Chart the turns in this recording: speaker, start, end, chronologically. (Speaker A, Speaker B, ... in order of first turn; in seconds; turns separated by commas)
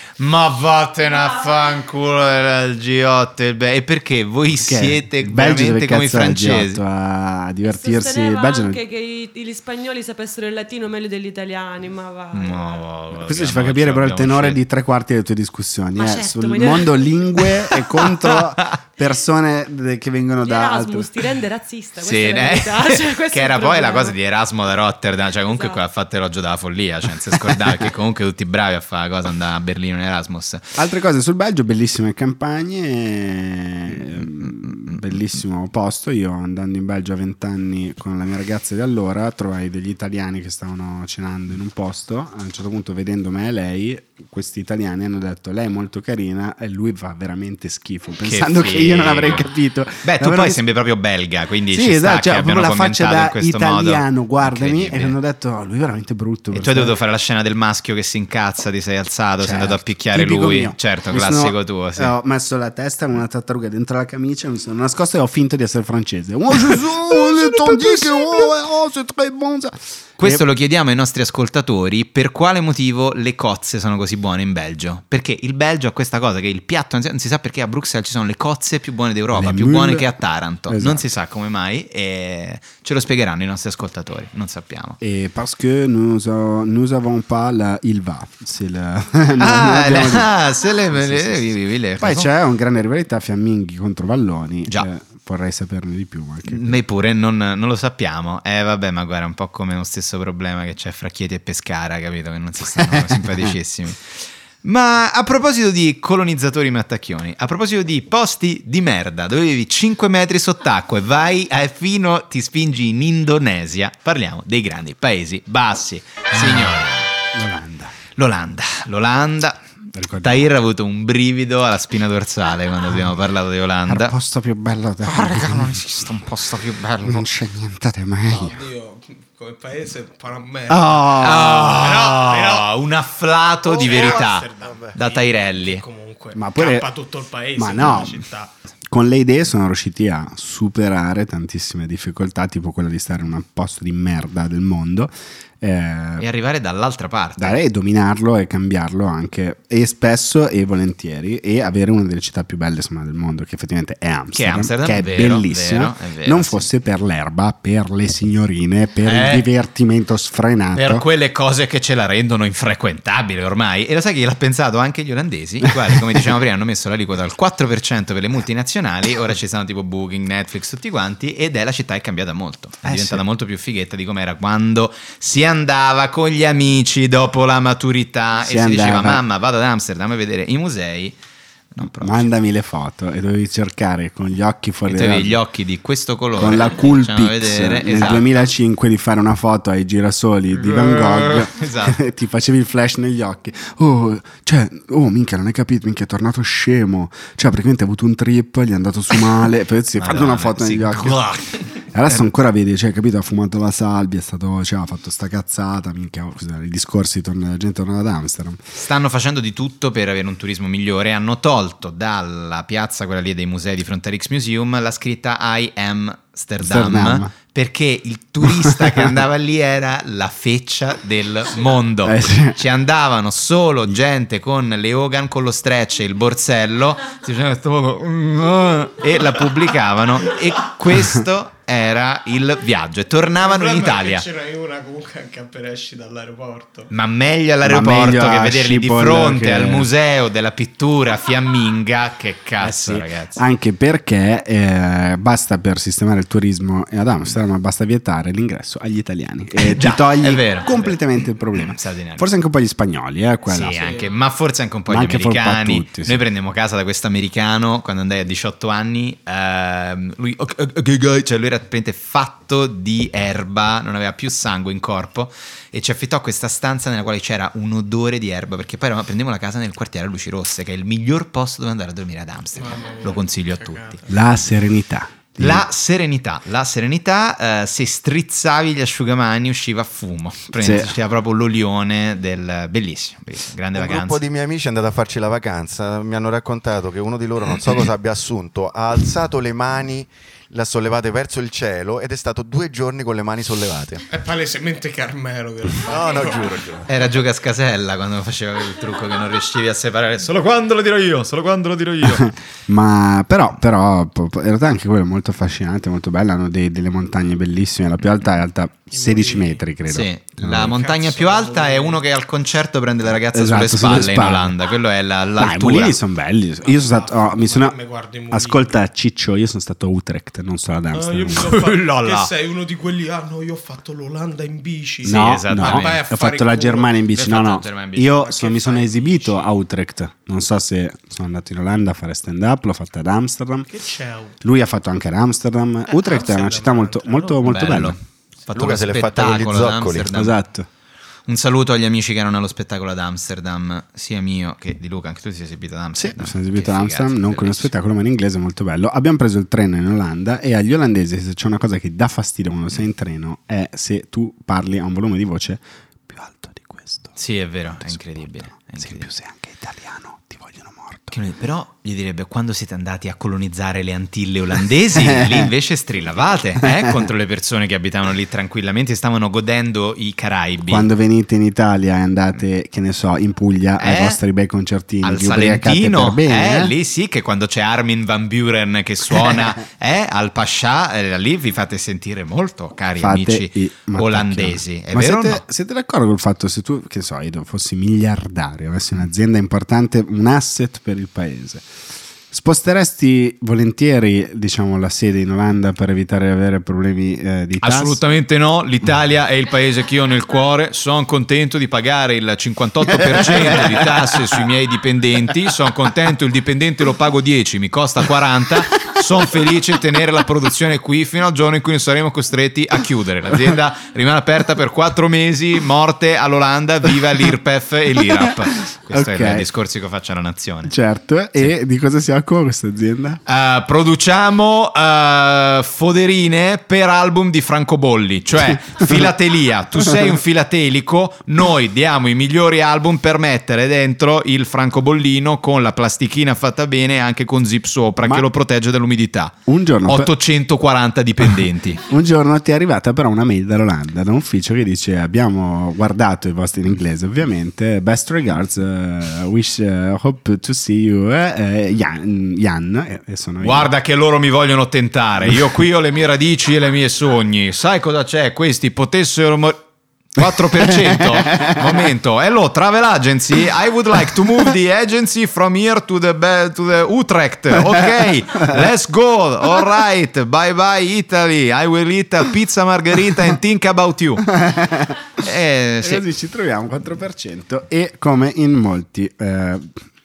Speaker A: 0.2-6.8, Speaker B: 4.6-8.8, Speaker C: 7.7-12.8, Speaker A: 12.3-14.6, Speaker B: 13.1-21.1, Speaker C: 16.0-17.4, Speaker C: 20.4-24.1, Speaker A: 22.0-30.7, Speaker C: 25.5-25.8, Speaker B: 30.8-50.6, Speaker A: 48.2-49.5, Speaker A: 50.0-55.1, Speaker B: 51.7-56.9, Speaker A: 56.5-62.1, Speaker B: 59.4-70.4, Speaker A: 70.2-85.0, Speaker B: 79.3-80.1, Speaker B: 80.7-81.1, Speaker B: 85.0-90.3, Speaker A: 89.4-92.3, Speaker B: 90.9-96.8, Speaker A: 96.5-117.1, Speaker B: 102.7-103.5, Speaker B: 116.3-118.0, Speaker A: 118.2-119.6, Speaker B: 119.9-120.5, Speaker A: 120.2-124.1, Speaker B: 123.8-126.2, Speaker A: 125.0-127.2, Speaker B: 127.0-128.6, Speaker D: 128.3-132.7, Speaker B: 130.7-131.9, Speaker A: 131.2-135.8, Speaker D: 133.6-138.5, Speaker B: 136.3-136.9, Speaker B: 137.6-138.2, Speaker B: 138.9-146.2, Speaker A: 146.2-147.6, Speaker B: 147.4-161.0, Speaker A: 154.3-156.7, Speaker A: 159.0-159.5, Speaker A: 160.7-181.2, Speaker B: 172.8-173.2, Speaker B: 178.4-179.2, Speaker A: 181.7-182.3, Speaker B: 181.8-185.4, Speaker A: 184.9-188.3, Speaker B: 186.3-201.3, Speaker A: 190.6-192.0, Speaker A: 200.0-202.2, Speaker B: 201.9-208.6, Speaker A: 208.8-234.2, Speaker B: 216.6-217.3, Speaker B: 218.4-219.2, Speaker B: 222.0-222.6, Speaker D: 233.4-236.9, Speaker A: 236.9-243.4, Speaker B: 237.6-239.9, Speaker B: 242.6-253.9, Speaker A: 249.6-252.3, Speaker A: 253.4-274.0, Speaker D: 253.7-254.2, Speaker B: 254.9-256.2, Speaker D: 272.5-274.1, Speaker B: 274.1-275.6, Speaker A: 275.4-284.2, Speaker B: 280.6-280.9, Speaker E: 283.7-294.0, Speaker D: 294.1-296.8, Speaker E: 295.8-296.9, Speaker A: 296.9-302.3, Speaker B: 302.0-310.8, Speaker D: 308.9-309.6, Speaker A: 309.9-315.9, Speaker D: 310.6-312.0, Speaker B: 313.2-314.6, Speaker B: 315.4-317.8, Speaker D: 316.6-318.7, Speaker B: 318.3-321.5, Speaker D: 320.9-327.0, Speaker A: 321.4-322.3, Speaker A: 325.0-326.0, Speaker B: 325.0-333.7, Speaker A: 327.1-329.3, Speaker D: 333.7-334.4, Speaker B: 334.4-338.0, Speaker D: 335.9-337.5, Speaker A: 337.4-340.4, Speaker E: 338.5-340.1, Speaker B: 340.1-340.7, Speaker A: 341.3-347.7, Speaker B: 345.9-357.1, Speaker A: 357.2-359.1, Speaker B: 357.8-361.1, Speaker A: 361.1-370.9, Speaker B: 364.9-365.5, Speaker B: 366.6-367.0, Speaker B: 370.6-376.7, Speaker A: 373.8-374.2, Speaker A: 375.0-385.4, Speaker B: 379.1-379.5, Speaker B: 383.0-391.6, Speaker B: 392.3-398.0, Speaker A: 397.6-420.7, Speaker B: 402.9-404.4, Speaker B: 418.9-419.5, Speaker B: 420.6-423.2, Speaker A: 423.3-439.3, Speaker B: 428.4-429.1, Speaker B: 429.8-430.1, Speaker B: 438.0-438.3, Speaker B: 439.5-440.1, Speaker A: 439.9-441.8, Speaker B: 441.8-453.7, Speaker A: 453.4-459.6, Speaker A: 460.1-474.3, Speaker B: 460.5-461.9, Speaker B: 467.7-468.6, Speaker B: 474.3-475.2, Speaker A: 475.2-476.0, Speaker B: 475.8-479.8